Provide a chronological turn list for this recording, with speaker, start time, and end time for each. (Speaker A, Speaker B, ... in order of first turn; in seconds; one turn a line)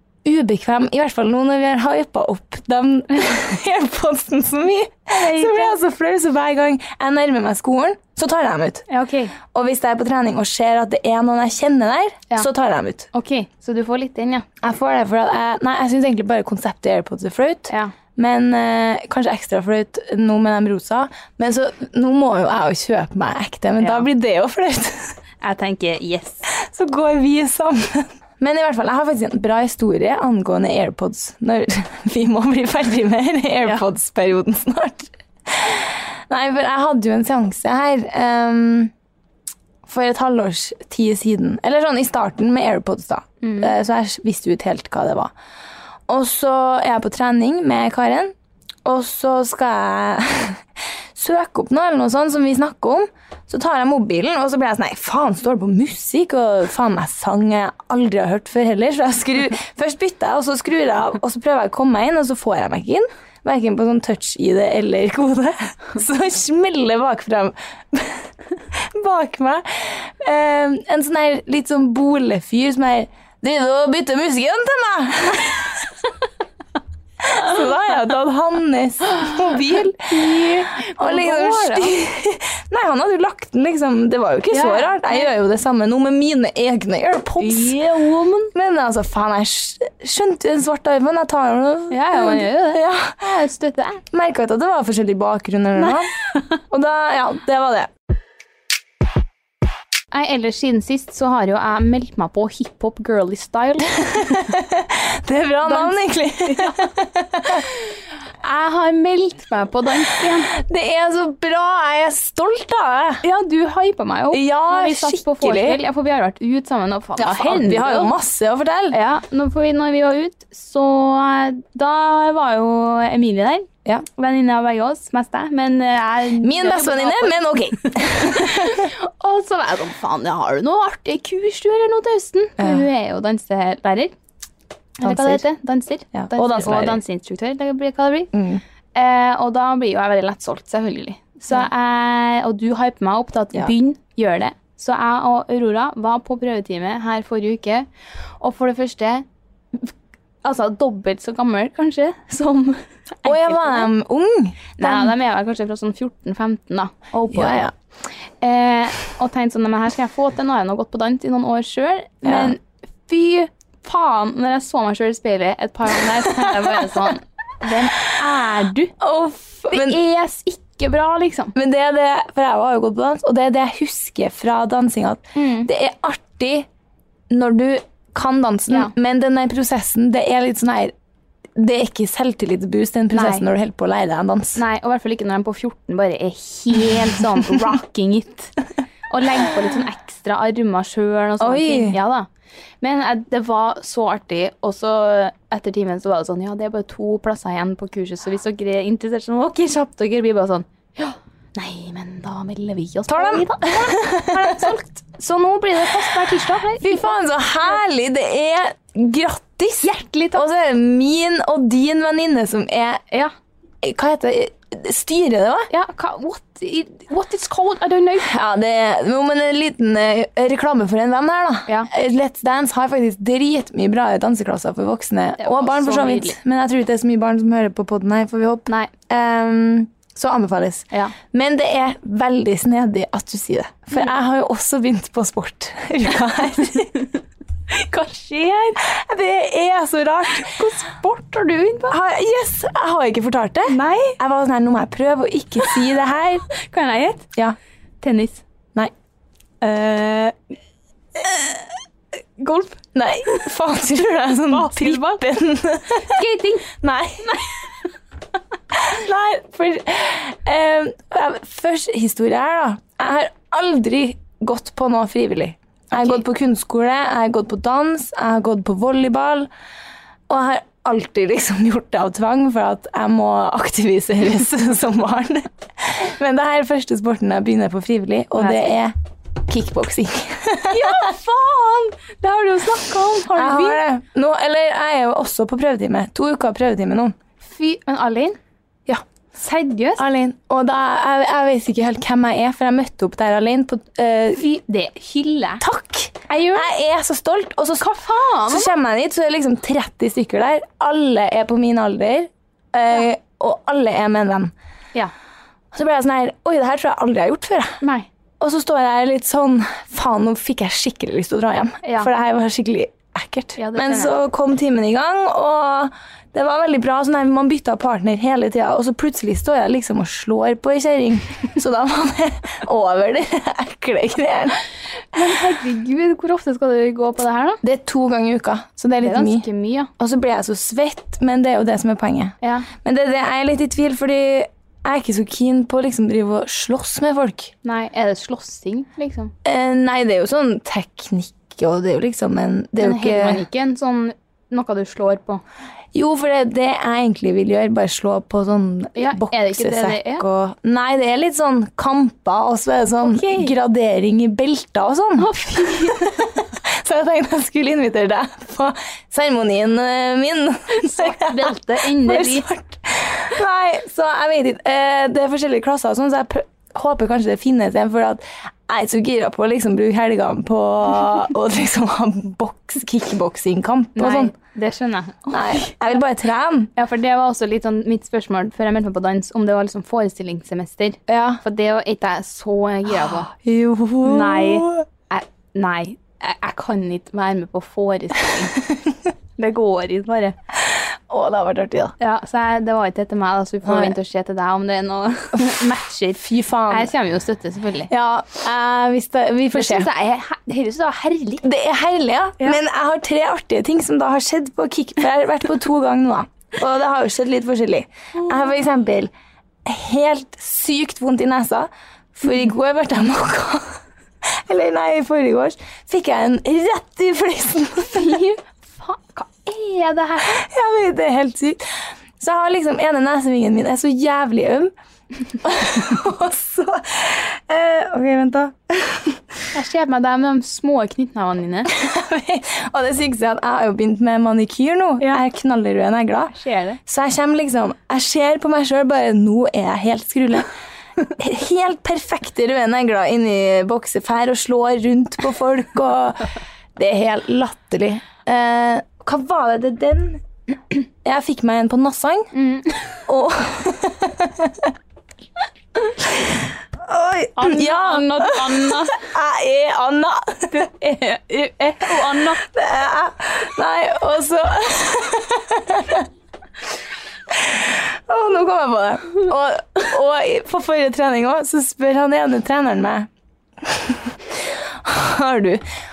Speaker A: 0.2-8.9
Speaker B: 5.1-5.8
Speaker B: 8.9-9.3
Speaker A: 9.4-13.1
Speaker B: 13.1-14.4
Speaker A: 14.6-25.1
Speaker B: 23.8-24.1
Speaker B: 25.4-26.5
Speaker A: 26.5-38.9
Speaker A: 39.8-45.3
Speaker B: 43.4-43.7
Speaker A: 46.1-48.3
Speaker A: 48.8-50.6
Speaker A: 51.1-75.8
Speaker A: 77.2-87.8
Speaker B: 80.3-81.9
Speaker B: 84.5-85.3
Speaker B: 87.4-88.5
Speaker A: 88.5-93.2
Speaker B: 91.9-94.0
Speaker A: 94.1-96.1
Speaker B: 95.8-96.4
Speaker A: 96.7-97.9
Speaker B: 100.1-104.5
Speaker A: 104.3-107.6
Speaker B: 105.6-106.9
Speaker B: 108.4-110.5
Speaker A: 110.5-113.2
Speaker B: 113.2-118.1
Speaker A: 114.3-115.8
Speaker A: 117.2-119.0
Speaker B: 118.9-134.1
Speaker A: 126.4-128.9
Speaker B: 135.0-138.3
Speaker A: 135.0-135.4
Speaker A: 136.1-137.0
Speaker A: 138.3-138.6
Speaker B: 138.9-147.9
Speaker B: 148.4-149.9
Speaker B: 150.4-153.9
Speaker A: 153.2-155.1
Speaker B: 154.8-157.7
Speaker A: 157.3-157.7
Speaker B: 158.4-168.9
Speaker A: 162.2-162.6
Speaker A: 166.5-166.7
Speaker A: 169.0-170.0
Speaker B: 169.7-171.5
Speaker A: 171.5-176.7
Speaker B: 175.3-175.7
Speaker A: 177.3-180.9
Speaker A: 181.6-184.6
Speaker B: 183.1-183.4
Speaker B: 184.6-188.5
Speaker B: 189.1-192.3
Speaker A: 191.4-192.0
Speaker B: 192.8-207.2
Speaker A: 203.1-204.7
Speaker A: 206.8-213.0
Speaker B: 209.8-210.4
Speaker A: 213.8-215.7
Speaker B: 215.7-218.3
Speaker A: 218.2-237.0
Speaker B: 225.4-226.4
Speaker B: 237.7-238.8
Speaker A: 238.8-240.5
Speaker B: 240.3-241.9
Speaker A: 241.9-246.5
Speaker B: 243.7-244.2
Speaker B: 246.6-247.3
Speaker B: 248.0-248.4
Speaker A: 249.6-250.3
Speaker B: 252.4-252.8
Speaker A: 252.9-257.3
Speaker B: 254.5-255.2
Speaker B: 256.0-256.7
Speaker B: 257.2-257.5
Speaker A: 258.7-269.5
Speaker A: 270.3-281.1
Speaker B: 278.4-278.7
Speaker B: 280.7-283.8
Speaker A: 283.3-287.1
Speaker B: 287.4-288.4
Speaker B: 289.4-290.0
Speaker A: 290.0-294.4
Speaker B: 294.3-295.6
Speaker A: 295.6-297.9
Speaker B: 296.3-296.7
Speaker B: 297.8-298.7
Speaker A: 298.5-304.5
Speaker A: 305.7-307.8
Speaker B: 307.8-308.1
Speaker A: 308.4-324.6
Speaker B: 311.8-312.1
Speaker B: 313.6-314.1
Speaker B: 325.1-327.6
Speaker A: 327.6-329.5
Speaker B: 329.0-329.9
Speaker A: 330.0-337.5
Speaker B: 332.4-332.7
Speaker B: 337.6-339.3
Speaker A: 339.4-343.4
Speaker B: 342.8-345.4
Speaker A: 345.9-374.3
Speaker B: 348.9-350.2
Speaker B: 353.0-353.5
Speaker B: 355.2-356.2
Speaker B: 360.7-362.4
Speaker B: 373.9-375.9
Speaker A: 375.3-376.7
Speaker B: 376.8-383.3
Speaker A: 381.1-381.4
Speaker A: 382.9-384.8
Speaker B: 384.0-388.6
Speaker B: 389.4-390.3
Speaker A: 390.6-391.9
Speaker B: 392.0-397.9
Speaker A: 393.6-393.9
Speaker A: 395.3-395.6
Speaker A: 396.1-396.9
Speaker A: 397.9-399.9
Speaker B: 399.5-401.4
Speaker A: 401.4-409.1
Speaker A: 409.6-418.2
Speaker B: 417.8-420.4
Speaker A: 420.3-421.6
Speaker A: 422.2-424.7
Speaker A: 425.4-429.2
Speaker B: 429.5-431.7
Speaker A: 431.7-440.5
Speaker B: 436.3-436.8
Speaker A: 441.1-452.3
Speaker B: 452.3-452.8
Speaker A: 453.1-454.7
Speaker A: 456.1-460.7
Speaker B: 457.4-459.0
Speaker B: 460.5-462.4
Speaker A: 462.3-466.1
Speaker A: 467.3-473.1
Speaker A: 473.6-475.6